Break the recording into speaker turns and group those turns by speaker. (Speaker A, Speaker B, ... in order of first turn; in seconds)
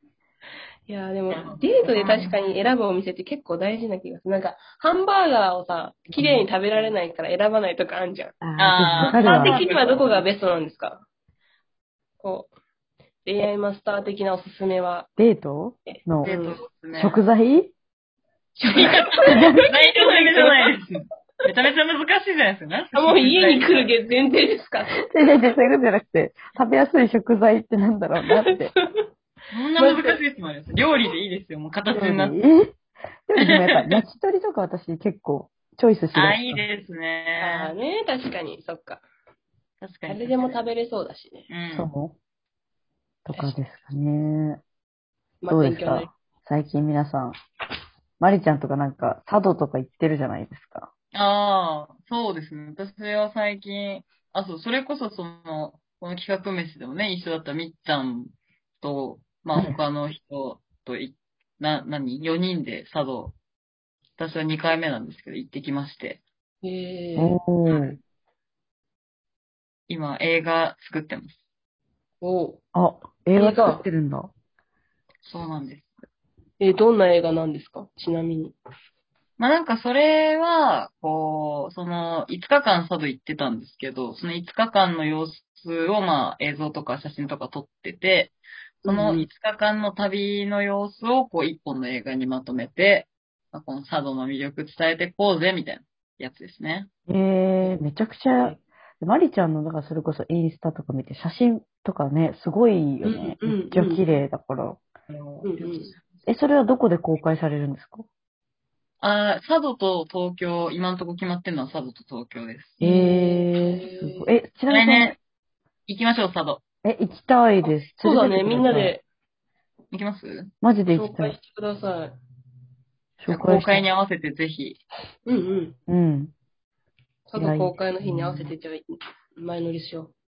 Speaker A: 0.9-8.3, 9.0-11.0, 12.2-12.5, 13.2-15.1, 16.2-16.6, 18.6-20.8, 22.9-25.1, 28.4-29.0, 29.8-30.2, 37.4-39.0, 40.1-41.5, 45.4-46.1, 66.6-67.4, 72.2-72.6, 73.3-73.8, 76.6-78.5, 88.8-89.3, 103.0-104.1, 105.4-105.9, 112.8-114.3, 117.6-119.0, 120.9-122.1, 125.2-125.8, 127.3-130.1
Speaker B: 1.3-2.3, 8.6-10.2, 16.2-17.2, 18.7-23.9, 29.5-32.4, 33.5-34.0, 36.1-37.7, 39.8-40.6, 41.5-41.9, 51.1-63.3, 64.2-66.2, 67.7-68.0, 69.9-71.4, 75.2-75.9, 79.4-96.9, 105.1-106.0, 109.0-112.8, 114.7-115.2, 115.9-116.6, 119.9-120.5, 123.3-124.8
Speaker C: 8.4-9.6, 15.2-16.3, 16.9-17.7, 19.3-19.6, 25.0-28.7, 31.9-36.6, 41.7-42.1, 43.2-44.6, 45.5-47.3, 48.2-50.9, 67.2-68.0, 72.7-74.3, 97.1-104.8, 106.2-108.0, 112.8-115.2, 116.8-118.9, 120.6-121.4, 123.2-123.8, 125.9-126.3, 127.3-128.4